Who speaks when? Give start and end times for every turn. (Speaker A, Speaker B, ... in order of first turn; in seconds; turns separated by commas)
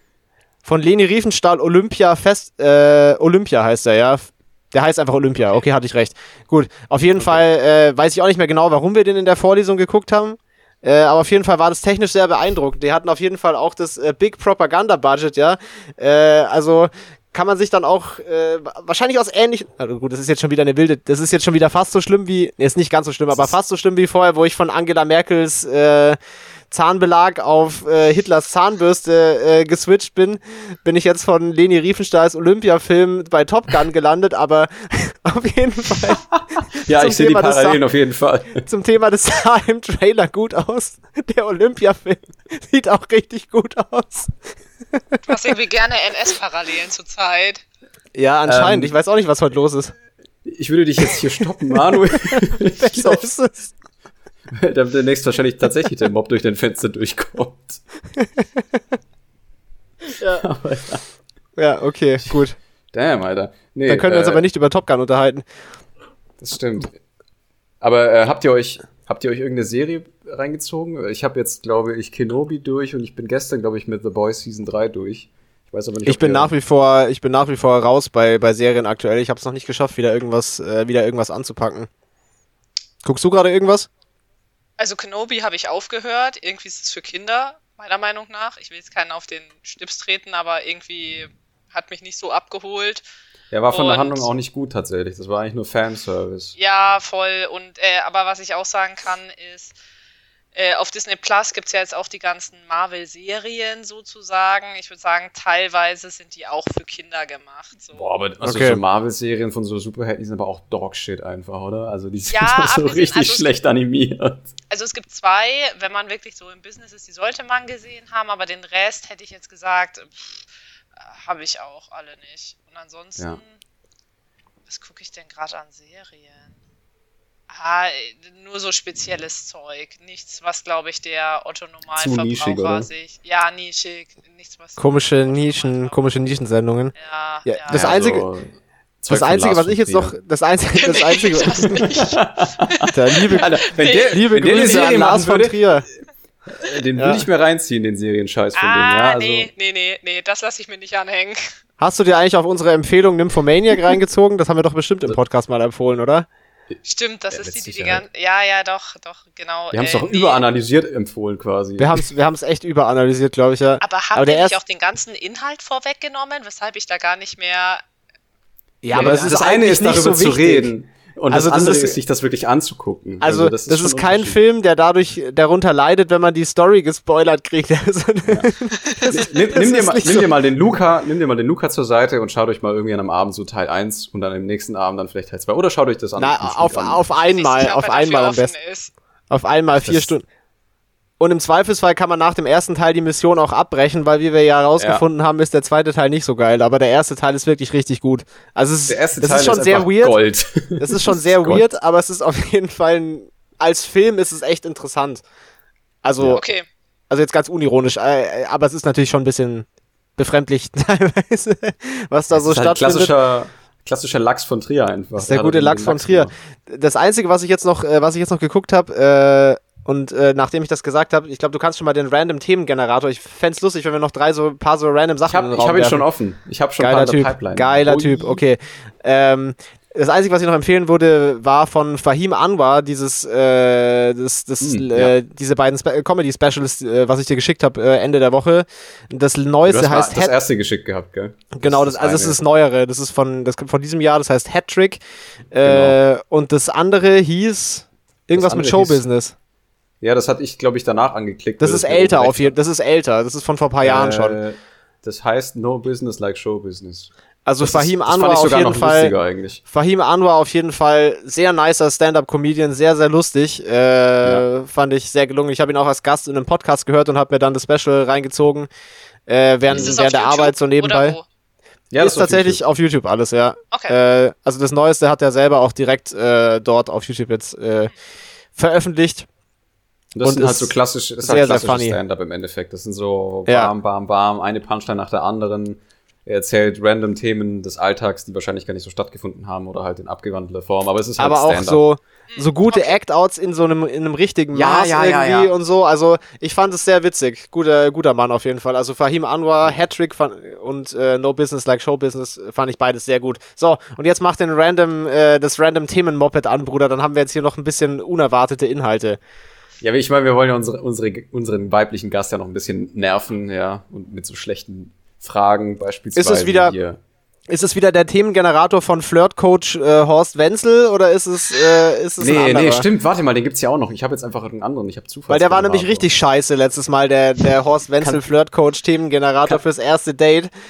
Speaker A: 0.6-26.2, Speaker A: 26.7-37.8, Speaker B: 36.1-38.7, Speaker A: 38.6-44.3, Speaker C: 45.3-47.6, Speaker A: 48.1-49.9, Speaker B: 48.5-48.9, Speaker B: 50.4-53.3, Speaker A: 51.1-53.7, Speaker B: 54.5-57.8, Speaker A: 58.2-58.8, Speaker A: 60.1-60.4, Speaker B: 60.3-61.0, Speaker A: 61.6-62.6, Speaker B: 62.9-64.4, Speaker A: 63.9-65.5, Speaker B: 66.4-66.9, Speaker B: 67.8-76.5, Speaker A: 76.0-81.9, Speaker A: 83.0-83.9, Speaker C: 84.8-93.0, Speaker B: 93.5-96.5, Speaker C: 93.7-94.3, Speaker C: 96.6-99.8, Speaker C: 100.5-108.1, Speaker B: 107.9-114.5, Speaker A: 108.4-108.8, Speaker C: 112.3-113.5, Speaker C: 114.7-120.5, Speaker C: 121.0-123.6, Speaker C: 124.7-126.5, Speaker C: 127.5-136.0, Speaker B: 132.0-132.9, Speaker A: 134.8-136.9, Speaker C: 136.9-137.9, Speaker A: 137.4-138.3, Speaker B: 137.7-140.1, Speaker A: 139.1-141.9, Speaker C: 140.8-144.9, Speaker B: 141.7-149.5, Speaker A: 142.9-145.9, Speaker A: 147.0-147.2, Speaker C: 148.6-151.5, Speaker A: 151.8-156.3, Speaker C: 156.8-160.4, Speaker B: 157.3-158.0, Speaker B: 159.7-162.0, Speaker A: 161.8-164.6, Speaker C: 163.8-167.8, Speaker A: 168.8-170.7, Speaker B: 168.9-174.4, Speaker A: 171.3-172.0, Speaker A: 173.2-180.3, Speaker B: 179.1-187.0, Speaker A: 186.2-188.5, Speaker C: 187.3-188.9, Speaker A: 189.3-190.2, Speaker B: 189.7-190.1, Speaker A: 191.2-200.2, Speaker B: 194.8-195.1, Speaker B: 198.9-201.6, Speaker A: 200.8-205.2, Speaker A: 206.0-206.4, Speaker C: 206.3-206.7, Speaker A: 207.1-209.7, Speaker A: 210.2-213.1, Speaker B: 212.3-216.3, Speaker A: 215.2-226.1, Speaker B: 225.3-228.4, Speaker A: 226.8-240.3, Speaker B: 234.6-235.1, Speaker B: 239.7-242.4, Speaker A: 241.6-245.0, Speaker A: 245.5-249.3, Speaker B: 245.6-246.0, Speaker B: 248.3-249.0, Speaker B: 250.0-252.6, Speaker A: 251.6-254.4, Speaker B: 253.8-259.6, Speaker A: 257.5-268.7, Speaker A: 269.3-271.2, Speaker B: 269.7-270.0, Speaker C: 269.7-271.2, Speaker B: 271.9-272.6, Speaker A: 272.0-277.9, Speaker A: 278.6-279.3, Speaker B: 280.1-291.8, Speaker A: 280.2-282.0, Speaker A: 283.5-283.7, Speaker A: 291.2-309.2, Speaker C: 292.3-293.0, Speaker B: 294.5-295.5, Speaker B: 309.8-317.0, Speaker A: 316.2-316.8, Speaker A: 317.5-322.9, Speaker B: 322.2-326.1, Speaker A: 325.3-330.5